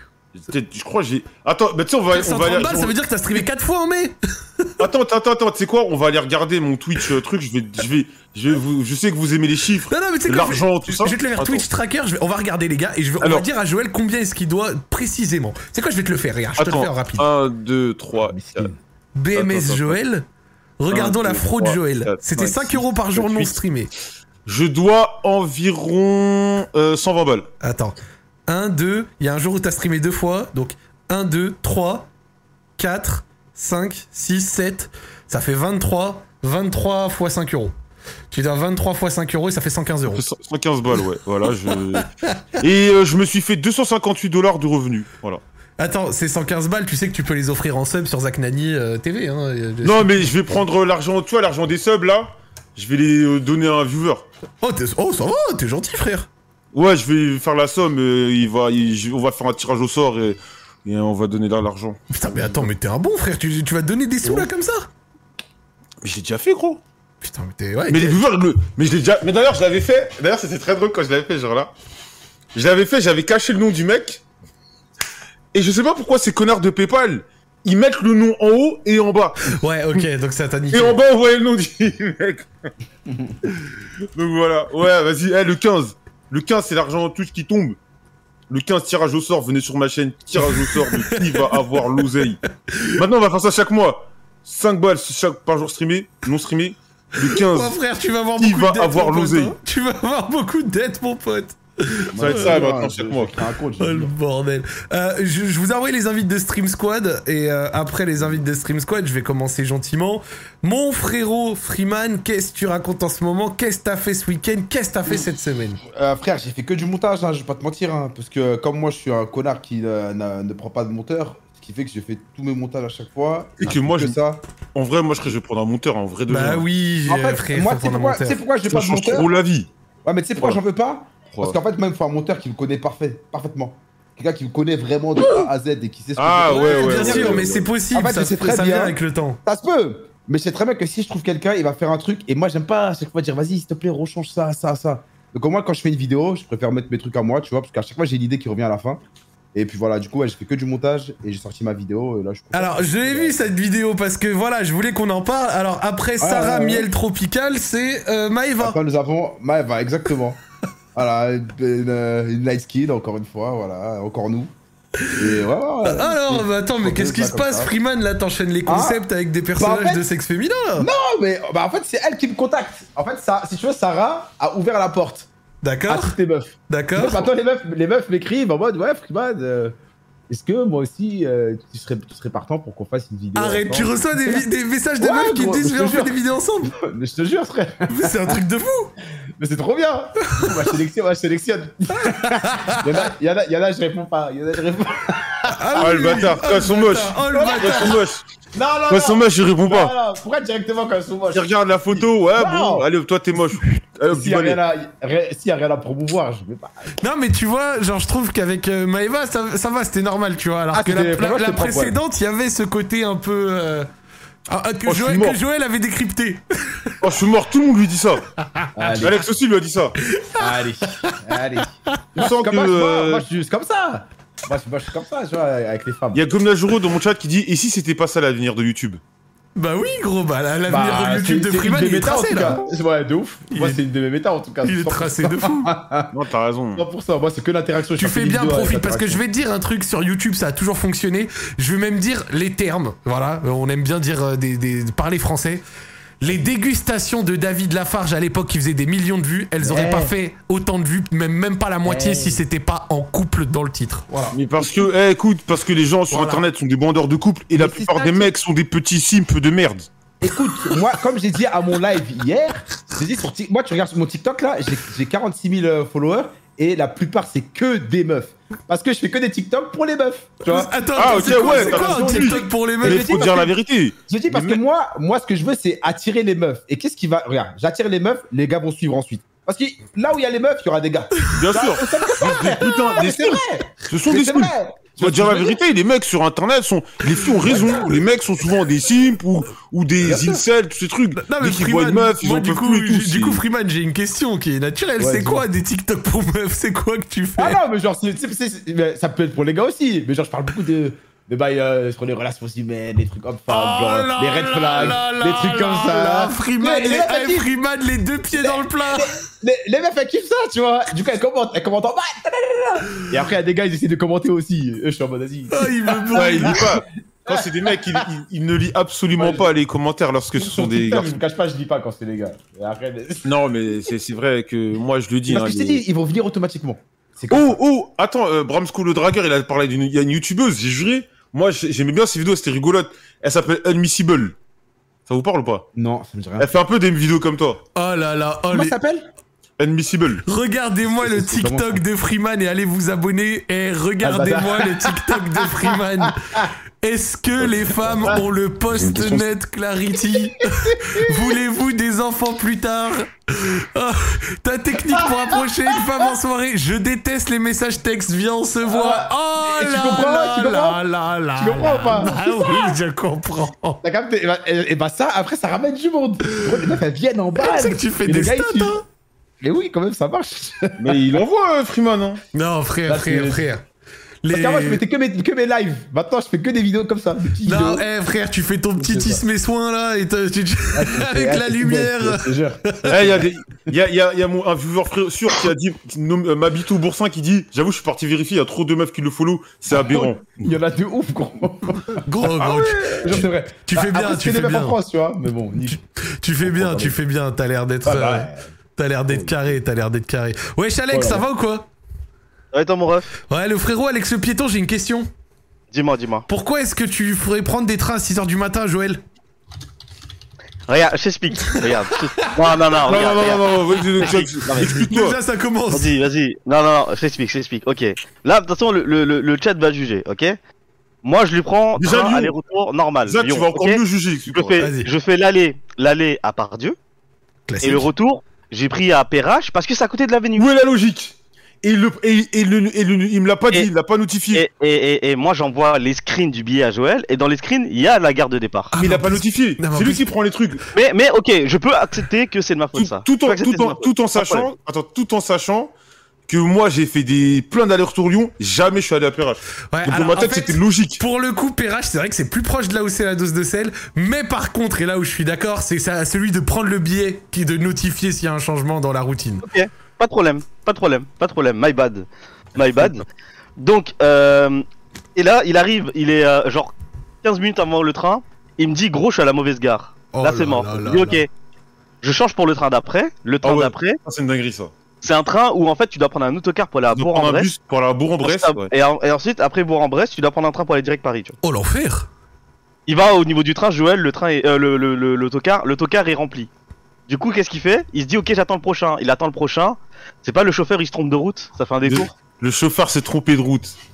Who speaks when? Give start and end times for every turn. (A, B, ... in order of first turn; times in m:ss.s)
0:00.4-0:03.4 A
0:02.1-0:04.8 B
0:04.8-0:11.7 A
0:09.9-0:17.3 B
0:16.6-0:18.7 A
0:18.2-0:18.8 C
0:19.2-0:20.2 B
0:19.4-0:20.0 A
0:20.8-0:23.9 B
0:20.9-0:23.6 A
0:24.5-0:27.5 A
0:27.6-0:28.0 B
0:28.5-0:32.1 B
0:32.8-0:37.7 B
0:38.3-0:40.2 B
0:40.1-0:42.1 A
0:42.6-0:45.4 A
0:45.8-0:50.3 B
0:49.8-0:54.3 A
0:54.6-0:56.3 B
0:56.7-1:02.0 A
1:02.1-1:04.9 B
1:06.0-1:06.8 A
1:07.2-1:08.2 B
1:07.9-1:11.7 A
1:12.5-1:14.2 A
1:15.5-1:20.0 A
1:19.5-1:21.0 B
1:20.7-1:22.5 A
1:24.2-1:27.8 A
1:28.5-1:32.4 A
1:30.6-1:31.5 B
1:33.0-1:37.8 A
1:37.3-1:42.6 B
1:38.4-1:39.6 A
1:42.1-1:44.1 C
1:42.2-1:43.4 A
1:43.8-1:55.8 B
1:55.9-2:04.4 C
2:03.6-2:04.2 A
2:04.7-2:06.6 A
2:06.3-2:08.4 B
2:07.1-2:09.3 C
2:08.7-2:09.7 A
2:10.0-2:29.0 C
2:16.2-2:17.7 A
2:16.5-2:19.4 B
2:29.5-2:33.4 C
2:32.5-2:38.8 B
2:36.2-2:36.9 C
2:38.6-2:40.4 C
2:41.0-2:44.5 C
2:45.2-2:47.7 C
2:45.8-2:50.9 B
2:48.7-2:50.0 C
2:50.8-2:55.3 C
2:55.6-2:56.2 B
2:55.9-2:59.8 C
2:56.7-2:57.3 B
3:00.3-3:04.5 C
3:03.4-3:06.8 B
3:05.0-3:08.4 C
3:07.9-3:08.9 B
3:09.4-3:16.2 C
3:12.0-3:12.9 B
3:15.5-3:18.0 B
3:15.8-3:18.2 A
3:17.3-3:18.0 C
3:18.5-3:22.9 C
3:18.9-3:19.9 A
3:21.3-3:24.6 A
3:24.1-3:26.9 C
3:27.0-3:33.9 B
3:30.7-3:32.0 C
3:34.5-3:37.0 B
3:34.9-3:35.4 A
3:37.0-3:38.3 A
3:38.8-3:39.2 C
3:39.0-3:40.0 A
3:40.1-3:41.2 B
3:40.4-3:46.2 C
3:42.2-3:43.2 A
3:46.1-3:49.0 A
3:49.6-3:52.6 B
3:50.7-3:56.1 C
3:53.5-3:53.8 B
3:54.6-3:55.7 B
3:56.1-3:56.8 A
3:56.7-3:59.2 C
3:58.0-4:05.6 B
4:06.2-4:14.4 B
4:09.6-4:10.1 C
4:11.8-4:12.4 C
4:14.3-4:19.9 A
4:16.1-4:16.4 B
4:17.6-4:18.3 C
4:20.2-4:33.6 C
4:30.5-4:33.3 B
4:31.0-4:34.6 A
4:34.1-4:45.6 C
4:41.4-4:53.4 A
4:42.3-4:42.6 B
4:47.4-4:47.9 C
4:50.0-4:50.4 C
4:51.2-4:57.6 B
4:55.0-4:55.5 C
4:57.4-5:07.5 C
5:03.5-5:09.1 B
5:08.3-5:18.0 C
5:15.5-5:16.6 B
5:16.1-5:21.2 A
5:19.1-5:19.5 C
5:20.4-5:23.3 C
5:23.2-5:25.8 A
5:25.3-5:27.6 C
5:27.3-5:34.4 A
5:35.1-5:35.7 A
5:35.8-5:36.5 C
5:36.4-5:37.6 A
5:37.8-5:38.8 B
5:38.5-5:39.1 C
5:39.6-5:40.2 A
5:40.3-6:03.8 B
5:40.8-5:41.8 C
5:44.0-5:46.5 C
5:47.9-5:48.2 C
5:48.7-5:49.3 C
5:54.9-5:55.8 C
5:58.6-6:00.8 C
6:01.4-6:02.8 C
6:03.8-6:08.8 C
6:07.4-6:08.8 B
6:09.4-6:11.2 C
6:10.8-6:12.2 A
6:12.3-6:13.6 B
6:12.9-6:13.5 C
6:14.2-6:14.8 B
6:14.3-6:17.8 C
6:17.4-6:23.0 B
6:18.8-6:19.2 C
6:20.7-6:23.2 C
6:22.9-6:30.2 A
6:29.7-6:35.8 C
6:32.0-6:34.8 B
6:35.6-6:41.7 B
6:36.4-6:37.0 C
6:37.8-6:38.5 C
6:39.1-6:39.6 C
6:40.9-6:41.3 C
6:42.5-6:43.1 D
6:43.3-6:45.1 B
6:45.7-6:46.3 D
6:46.3-6:49.0 B
6:50.7-6:54.7 D
6:52.2-6:52.6 B
6:52.9-6:55.2 A
6:54.1-6:55.9 B
6:55.7-7:00.4 D
7:01.0-7:06.8 D
7:01.8-7:02.3 A
7:03.1-7:04.6 A
7:04.6-7:04.9 B
7:07.5-7:07.9 B
7:07.6-7:10.5 D
7:10.4-7:14.4 A
7:14.3-7:18.7 D
7:18.7-7:20.1 B
7:18.8-7:20.6 A
7:20.7-7:24.5 D
7:22.8-7:25.7 A
7:26.3-7:31.0 A
7:29.7-7:39.5 B
7:39.4-7:43.0 D
7:43.6-7:44.6 D
7:45.2-7:51.3 D
7:50.1-7:51.2 B
7:52.0-7:54.0 D
7:53.4-7:54.7 A
7:55.0-7:57.5 D
7:56.9-7:58.7 A
7:58.2-8:01.4 D
8:01.4-8:02.1 B
8:02.9-8:06.5 D
8:07.1-8:12.1 D
8:11.8-8:13.8 A